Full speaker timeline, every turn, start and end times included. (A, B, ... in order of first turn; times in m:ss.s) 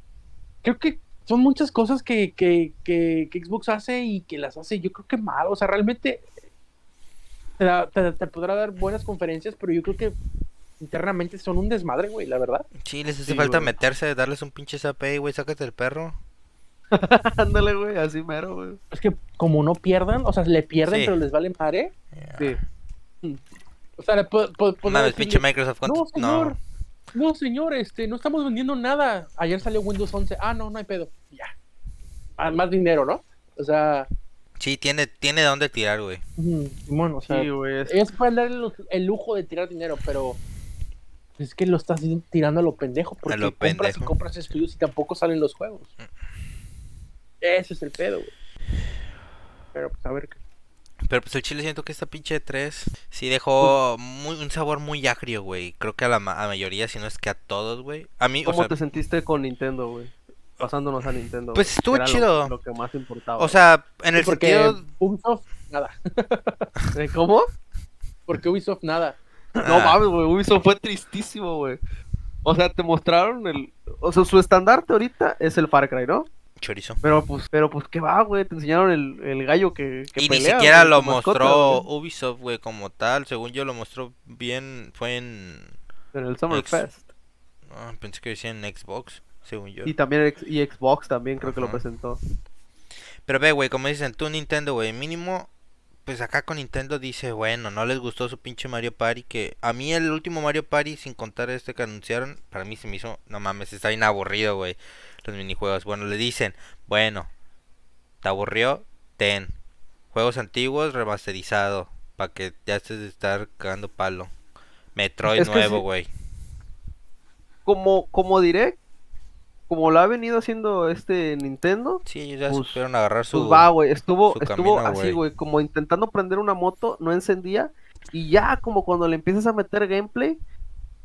0:00.6-0:06.3 A
0:07.6-0:10.2 A
0:10.8-0:12.7 A
0:12.8-0:16.2 B
0:13.3-0:13.7 C
0:16.9-0:18.8 C
0:18.9-0:21.9 A
0:20.8-0:21.2 B
0:22.2-0:22.5 B
0:24.0-0:26.6 A
0:24.8-0:26.6 B
0:27.1-0:31.5 A
0:32.4-0:34.1 A
0:34.6-0:36.2 B
0:36.4-0:40.4 A
0:37.2-0:38.0 C
0:41.4-0:45.9 A
0:43.2-0:44.1 B
0:47.4-0:48.3 A
0:49.7-0:50.4 A
0:51.1-0:58.8 B
0:58.4-1:03.6 C
1:01.5-1:02.5 B
1:03.4-1:04.8 B
1:04.2-1:06.7 A
1:07.0-1:07.5 C
1:08.3-1:09.2 A
1:09.6-1:10.0 B
1:09.6-1:11.8 C
1:12.4-1:16.3 C
1:16.6-1:17.0 B
1:17.0-1:21.8 C
1:20.2-1:25.7 B
1:26.1-1:27.1 C
1:26.5-1:26.8 B
1:27.7-1:29.9 B
1:29.8-1:32.2 C
1:31.4-1:31.8 B
1:33.2-1:35.5 B
1:36.0-1:47.3 B
1:48.2-1:49.5 B
1:50.1-1:54.3 B
1:54.9-1:56.1 B
1:55.3-1:55.8 C
1:57.6-1:58.8 C
1:59.7-2:10.4 C
2:02.1-2:03.7 B
2:04.3-2:05.2 B